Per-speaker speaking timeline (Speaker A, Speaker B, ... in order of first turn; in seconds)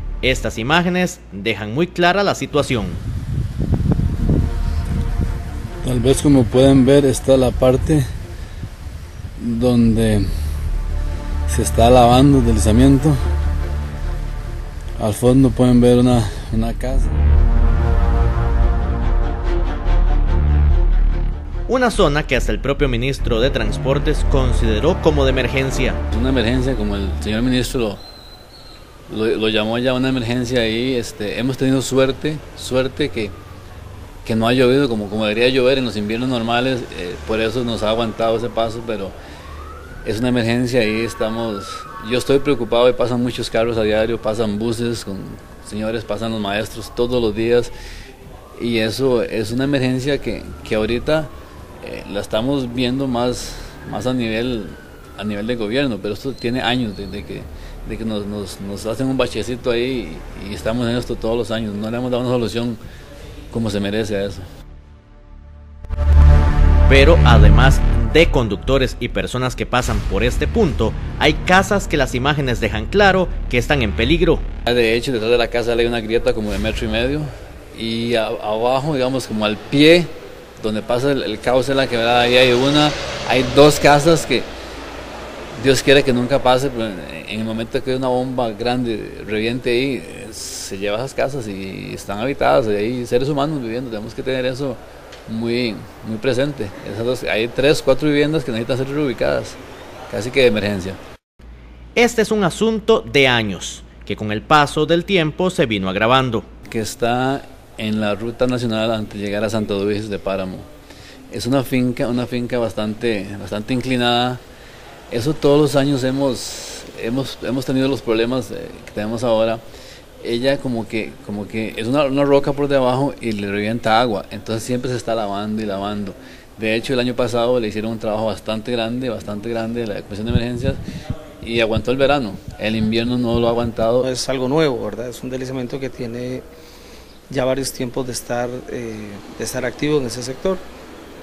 Speaker A: 0.2-3.0, 21.7-26.0, 66.9-74.4, 102.0-106.5
Speaker B: 5.8-8.0, 9.4-10.3, 11.5-13.2, 15.0-17.2, 26.1-28.0, 29.1-33.3, 34.2-39.1, 40.0-47.7, 48.6-62.8, 63.5-64.4, 74.7-84.5, 85.5-99.6, 100.1-101.0, 106.7-110.7, 111.3-114.4, 115.1-119.6, 120.2-130.8, 131.4-134.1
Speaker C: 134.0-136.4, 137.3-140.6